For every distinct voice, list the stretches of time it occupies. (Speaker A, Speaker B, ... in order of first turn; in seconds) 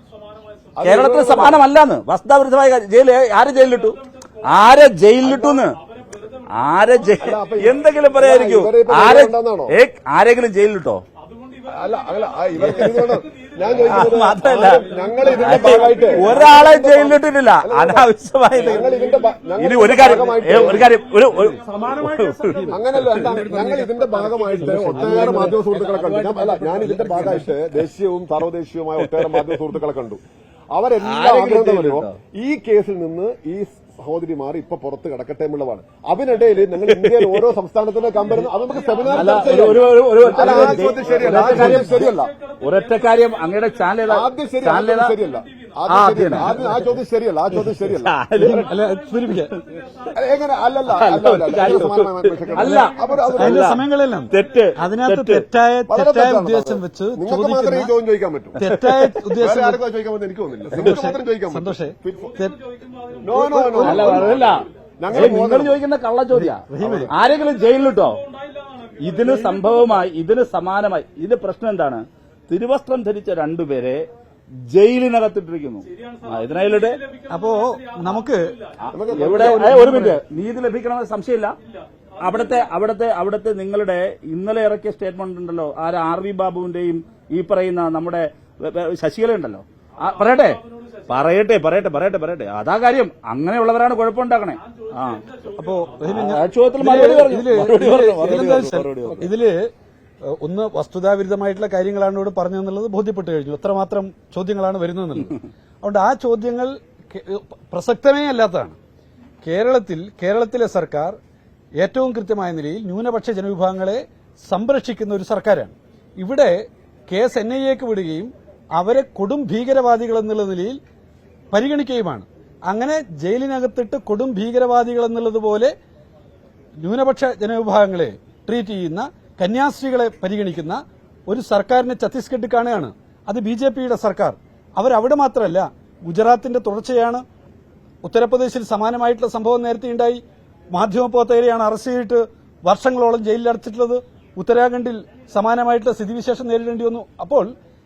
Speaker A: 0.8-1.6, 5.2-5.6, 7.2-9.7, 11.7-20.9, 22.7-30.2, 30.7-42.3, 44.1-48.7, 50.1-53.8, 55.9-58.6, 59.4-62.3, 63.2-65.8, 66.8-67.1, 78.9-79.8
Speaker B: 0.8-5.8, 6.5-11.0, 12.6-13.1, 13.8-18.9, 19.6-23.4, 26.8-27.4, 29.0-29.4, 31.0-32.2, 37.0-37.4, 39.1-45.2, 45.9-46.5, 47.5-48.7, 50.9-55.5, 58.7-59.2, 63.8-68.2, 69.0-74.0, 74.7-77.0, 78.9-81.5, 82.2-95.4, 96.1-99.3
Speaker C: 23.5-23.8, 24.6-25.6, 40.3-42.0, 48.4-49.5, 52.5-57.9, 58.6-59.8, 60.7-62.6, 63.3-64.3, 66.3-67.1, 77.3-78.6, 79.3-80.2, 95.5-99.7, 100.2-108.8, 109.4-111.1, 111.8-116.5, 117.1-120.8, 121.5-125.7, 126.8-137.2, 138.0-140.2, 140.8-147.5